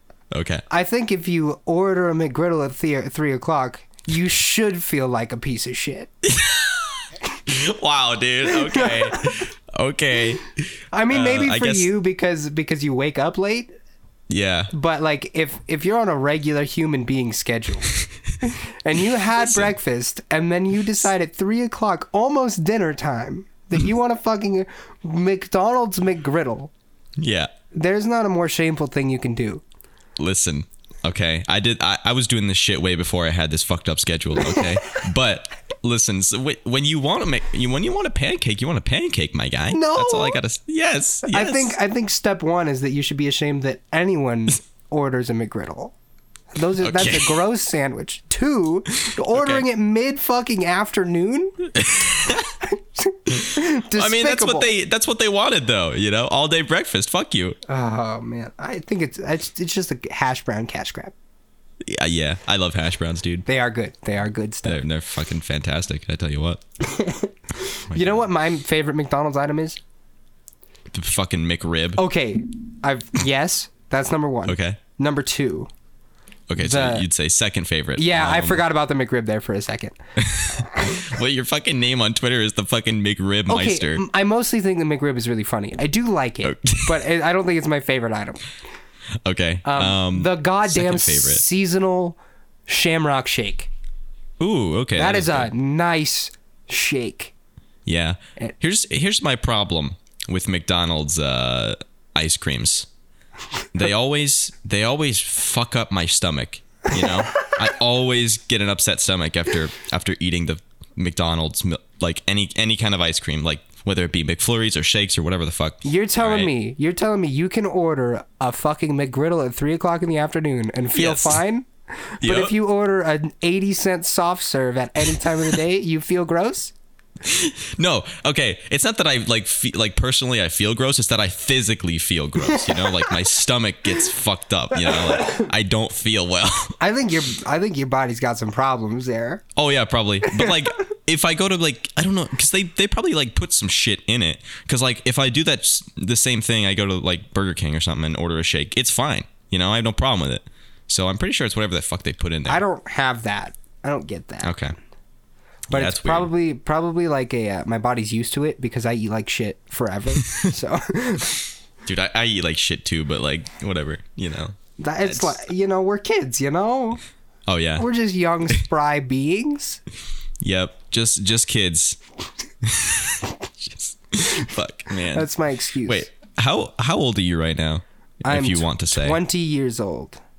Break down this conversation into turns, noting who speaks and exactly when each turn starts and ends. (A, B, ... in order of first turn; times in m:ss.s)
0:00.3-0:00.6 A
0:00.7-0:06.1 B
0:06.2-0:11.9 A
0:08.5-0:09.3 B
0:10.9-0:13.7 B
0:14.3-0:14.7 A
0:14.7-0:26.7 B
0:19.3-0:19.8 A
0:27.2-0:27.5 A
0:27.7-0:29.6 B
0:30.2-0:41.8 A
0:39.7-0:40.4 B
0:41.2-0:45.9 B
0:46.5-0:51.7 B
0:46.8-0:47.4 A
0:49.3-0:49.6 A
0:51.8-0:52.5 A
0:52.6-0:54.7 B
0:53.3-0:57.6 A
0:57.7-1:01.1 B
1:01.8-1:03.4 A
1:03.5-1:04.8 B
1:04.6-1:06.6 A
1:06.8-1:09.8 B
1:07.9-1:08.2 A
1:10.9-1:12.0 A
1:12.0-1:15.7 B
1:14.4-1:14.8 A
1:16.5-1:18.6 A
1:16.6-1:17.1 B
1:18.0-1:20.0 B
1:20.2-1:24.0 A
1:20.5-1:21.1 B
1:23.5-1:28.4 B
1:26.4-1:27.0 A
1:29.2-1:31.4 A
1:29.6-1:33.7 B
1:34.4-1:35.5 A
1:35.0-1:37.3 B
1:37.9-1:42.9 A
1:43.7-1:56.5 A
1:55.8-2:01.7 B
2:00.9-2:01.4 A
2:02.2-2:06.7 B
2:02.2-2:02.6 A
2:07.2-2:16.8 A
2:12.5-2:12.8 B
2:14.9-2:15.5 B
2:16.8-2:19.4 B
2:19.6-2:32.6 A
2:20.3-2:20.6 B
2:32.5-2:34.5 B
2:34.4-2:34.7 A
2:35.7-2:36.3 A
2:35.7-2:41.4 B
2:41.8-2:45.4 A
2:44.8-2:47.0 B
2:47.5-2:47.9 A
2:47.8-2:49.8 B
2:50.4-2:52.0 A
2:52.6-2:55.3 A
2:55.1-2:56.1 B
2:55.8-2:59.2 A
2:58.3-3:00.2 B